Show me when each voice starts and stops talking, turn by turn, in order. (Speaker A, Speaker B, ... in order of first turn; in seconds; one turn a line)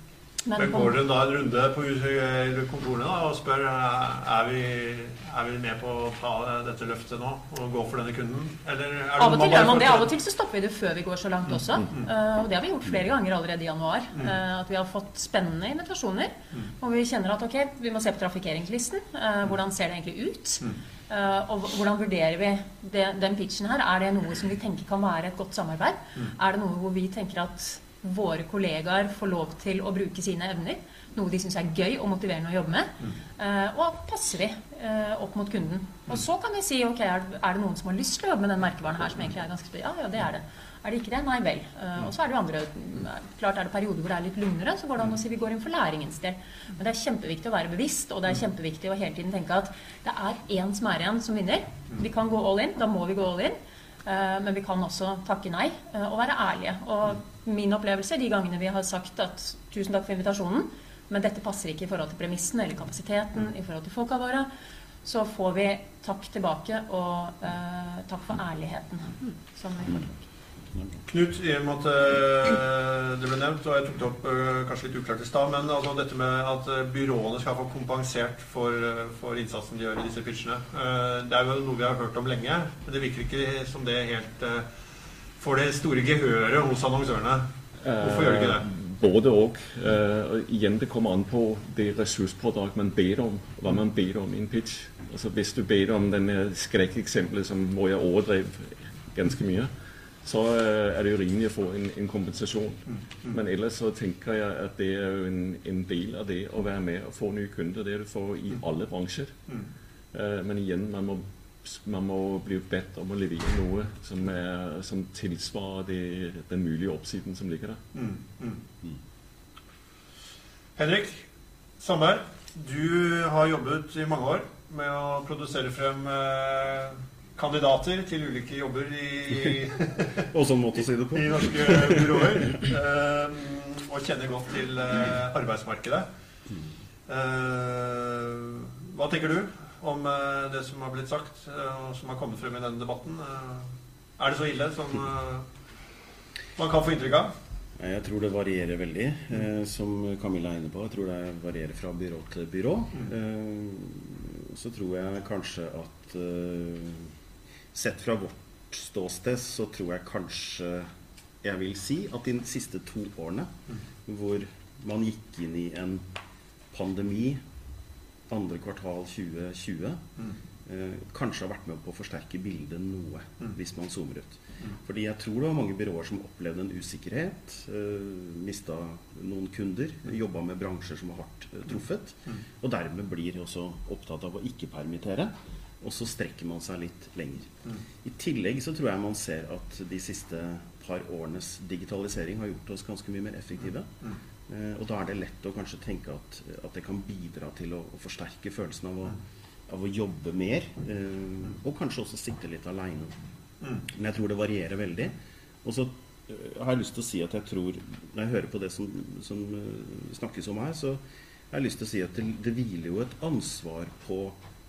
Speaker A: 0.4-0.9
Speaker B: 0.6-10.1
Speaker A: 9.2-64.5
Speaker B: 11.5-12.0
Speaker A: 65.0-70.2
Speaker B: 71.1-84.7
Speaker B: 85.4-87.5
Speaker C: 87.8-99.7
Speaker B: 88.0-88.6
Speaker C: 100.2-109.4
Speaker B: 102.9-103.3
Speaker C: 110.1-117.8
Speaker B: 117.9-118.6
Speaker B: 120.8-121.2
Speaker B: 121.8-130.3
Speaker D: 130.3-132.6
Speaker B: 131.1-136.1
Speaker B: 137.1-145.4
Speaker B: 146.6-147.3
Speaker D: 147.8-157.1
Speaker D: 157.7-160.9
Speaker D: 161.4-163.5
Speaker D: 164.0-166.1
Speaker D: 166.7-167.4
Speaker D: 168.3-170.0
Speaker D: 170.7-193.9
Speaker D: 194.5-203.2
Speaker D: 203.8-214.4